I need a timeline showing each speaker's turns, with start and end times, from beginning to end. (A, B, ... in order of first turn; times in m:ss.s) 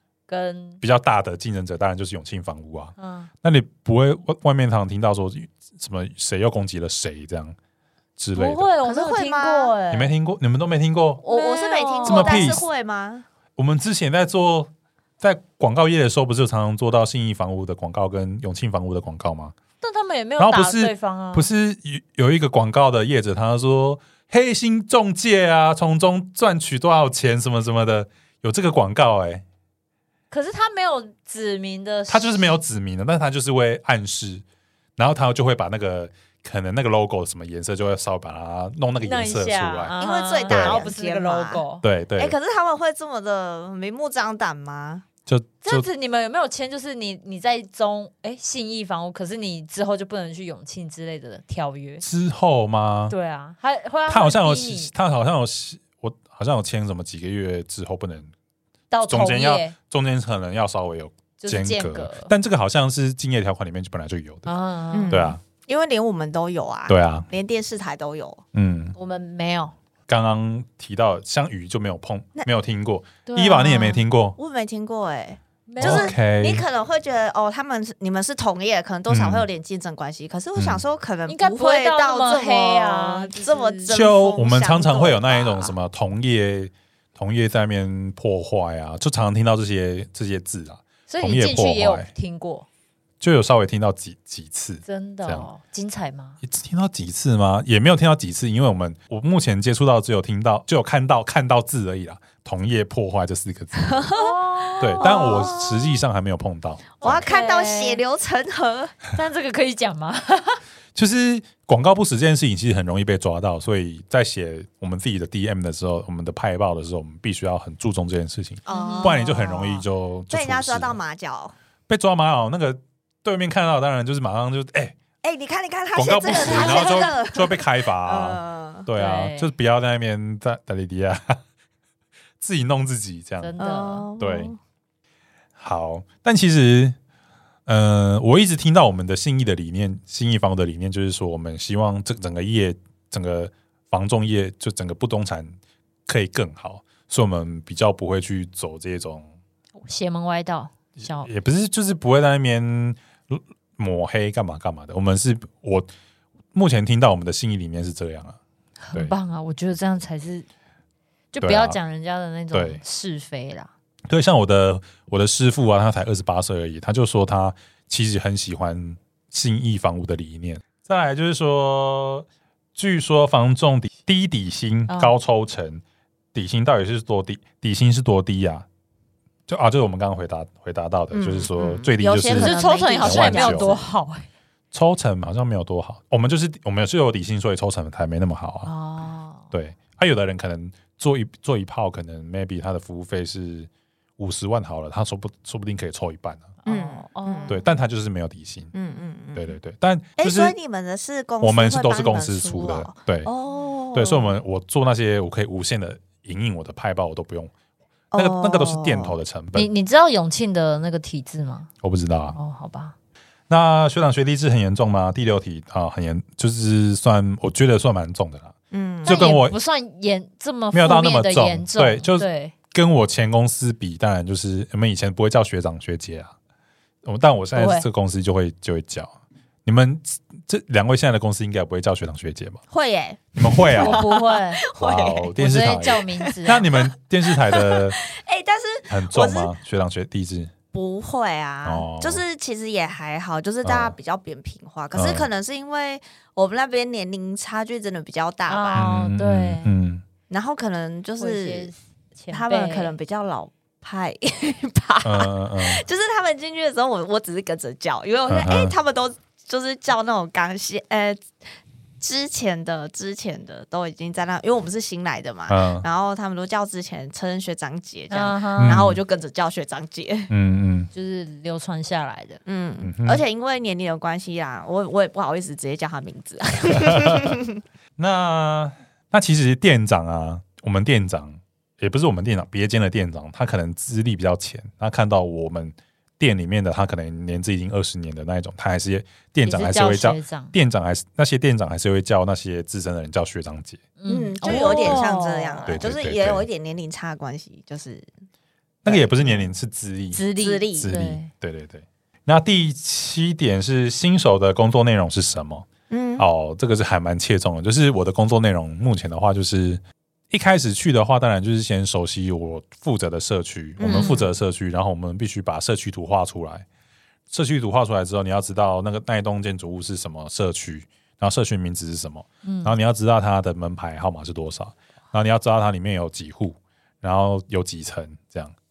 0:00.3-0:00.8 A
0:00.8-0:07.5 B
0:03.0-0:03.3 A
0:08.2-0:08.7 B
0:08.3-0:10.1 A
0:08.8-0:09.7 C
0:09.9-0:11.2 B
0:11.2-0:12.5 A
0:11.2-0:13.2 C
0:12.0-0:12.6 B
0:13.6-0:19.5 B
0:19.8-0:21.5 A
0:20.4-0:29.4 B
0:30.3-0:32.5 A
0:32.1-0:34.4 B
0:35.0-0:39.9 B
0:39.0-0:41.8 A
0:40.0-0:41.6 C
0:40.5-0:40.8 B
0:41.8-0:42.3 B
0:42.2-0:45.0 C
0:45.3-0:45.8 B
0:45.6-0:52.0 A
0:52.0-0:53.1 B
0:53.1-0:54.9 A
0:54.1-0:58.3 B
0:58.9-0:59.7 A
0:59.0-1:04.5 B
1:01.4-1:02.3 A
1:04.5-1:05.3 A
1:04.9-1:08.4 C
1:05.1-1:05.4 B
1:06.9-1:07.3 B
1:08.5-1:09.0 B
1:09.0-1:09.7 A
1:10.1-1:14.4 B
1:13.2-1:14.1 A
1:14.4-1:25.8 C
1:15.7-1:16.2 A
1:15.8-1:16.6 B
1:19.1-1:19.5 B
1:20.6-1:20.8 B
1:21.3-1:23.9 A
1:23.9-1:32.1 B
1:31.1-1:32.6 A
1:33.2-1:35.5 B
1:34.8-1:36.4 A
1:36.4-1:44.1 B
1:43.7-1:46.0 C
1:44.1-1:45.5 A
1:44.8-1:47.2 B
1:47.0-1:48.0 A
1:47.0-1:49.0 C
1:49.1-1:50.6 A
1:50.9-2:01.0 B
1:58.6-2:01.5 C
1:58.7-1:59.3 A
2:01.9-2:05.0 B
2:05.2-2:08.9 C
2:05.9-2:11.4 B
2:06.3-2:07.1 A
2:08.9-2:09.5 A
2:12.4-2:13.5 B
2:13.4-2:14.1 A
2:13.6-2:14.6 C
2:14.2-2:14.5 B
2:15.6-2:17.0 B
2:17.6-2:29.3 B
2:29.8-2:31.3 A
2:31.0-2:35.9 B
2:36.5-2:38.4 B
2:38.8-2:40.5 A
2:41.3-2:43.7 A
2:41.4-2:41.8 B
2:42.5-2:42.8 B
2:44.1-2:55.8 B
2:54.9-2:55.1 A
2:56.3-2:58.6 B
2:59.5-3:03.8 B
3:01.1-3:03.8 C
3:02.3-3:04.3 A
3:04.7-3:08.7 B
3:08.6-3:09.5 A
3:09.5-3:16.5 B
3:16.6-3:17.6 A
3:16.6-3:17.6 C
3:17.5-3:18.7 B
3:18.7-3:19.6 C
3:19.3-3:20.6 B
3:20.2-3:24.4 C
3:21.4-3:23.3 B
3:23.9-3:27.5 B
3:28.1-3:29.2 C
3:28.1-3:29.7 B
3:29.5-3:31.7 A
3:31.8-3:32.4 B
3:32.3-3:32.9 A
3:33.5-3:38.5 B
3:38.7-3:39.3 C
3:39.0-3:39.6 B
3:39.0-3:42.5 A
3:40.7-3:46.3 B
3:47.0-3:49.1 B
3:47.5-3:47.9 A
3:49.6-3:52.6 B
3:52.7-3:59.6 C
3:53.4-3:54.0 B
3:53.7-3:54.6 A
3:54.7-3:58.0 B
3:55.4-3:56.7 A
3:58.9-4:00.5 B
4:00.7-4:08.9 C
4:01.6-4:02.2 B
4:03.6-4:03.9 B
4:04.9-4:05.3 B
4:08.5-4:09.7 A
4:08.7-4:10.0 B
4:10.3-4:11.7 C
4:11.2-4:12.9 A
4:12.3-4:21.2 C
4:15.0-4:15.8 B
4:18.3-4:18.7 B
4:22.0-4:30.3 C
4:25.5-4:25.8 B
4:28.1-4:28.8 A
4:28.6-4:29.0 B
4:30.3-4:30.9 B
4:30.9-4:32.4 A
4:32.4-4:37.6 C
4:32.8-4:33.2 B
4:36.7-4:37.4 B
4:38.0-4:53.8 B
4:49.4-4:50.5 A
4:54.0-4:55.7 A
4:54.1-4:58.1 C
4:54.5-4:55.0 B
4:55.6-4:56.4 B
4:58.8-5:00.2 B
4:58.8-4:59.5 C
5:00.1-5:01.3 A
5:00.3-5:00.9 C
5:00.8-5:05.7 B
5:05.9-5:06.2 C
5:06.2-5:16.6 B
5:13.8-5:14.2 C
5:13.9-5:14.2 A
5:17.3-5:28.5 B
5:22.4-5:22.7 A